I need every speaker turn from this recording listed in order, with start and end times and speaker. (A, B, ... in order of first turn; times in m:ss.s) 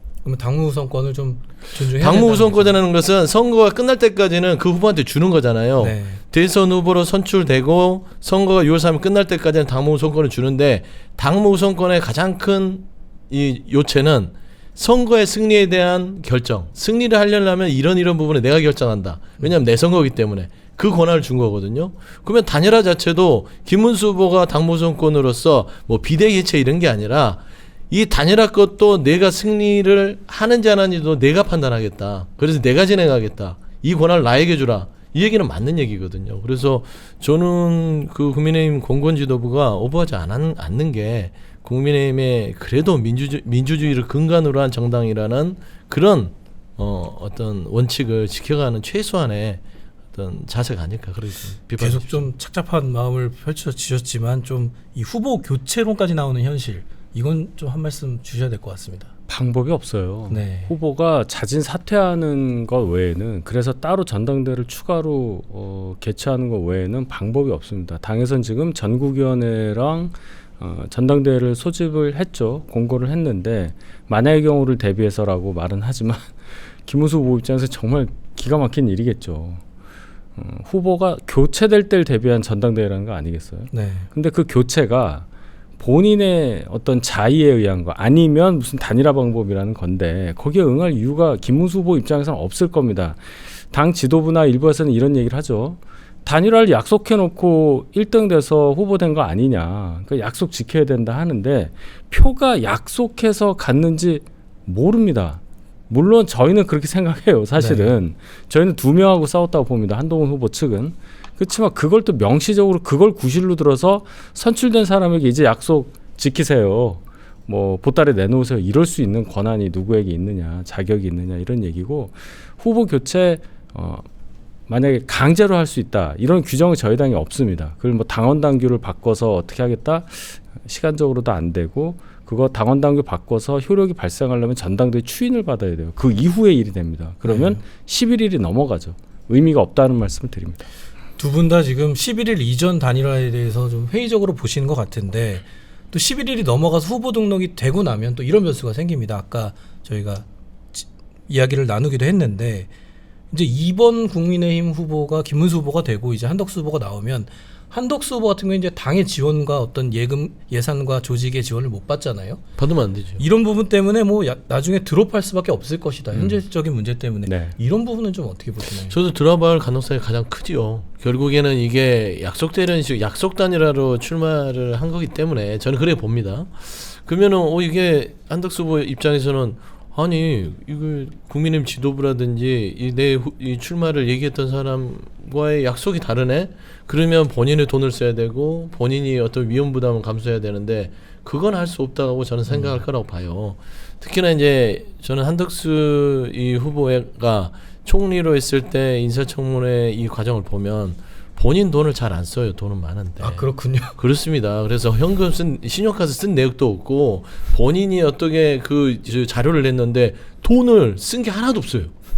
0:00.2-0:02.8 A
0:01.8-0:49.6 B
0:05.8-0:06.2 A
0:50.1-0:52.3 B
0:51.8-0:59.1 A
0:59.3-1:19.6 C
1:00.3-1:00.7 A
1:20.4-1:25.2 C
1:23.7-1:24.1 A
1:25.8-2:04.0 C
1:47.6-1:48.0 A
2:04.7-2:20.6 C
2:17.2-2:17.6 A
2:21.2-2:32.7 A
2:33.3-2:42.4 A
2:42.6-2:43.2 B
2:43.2-2:49.0 A
2:47.2-2:47.5 C
2:48.9-3:31.9 B
3:23.2-3:24.0 A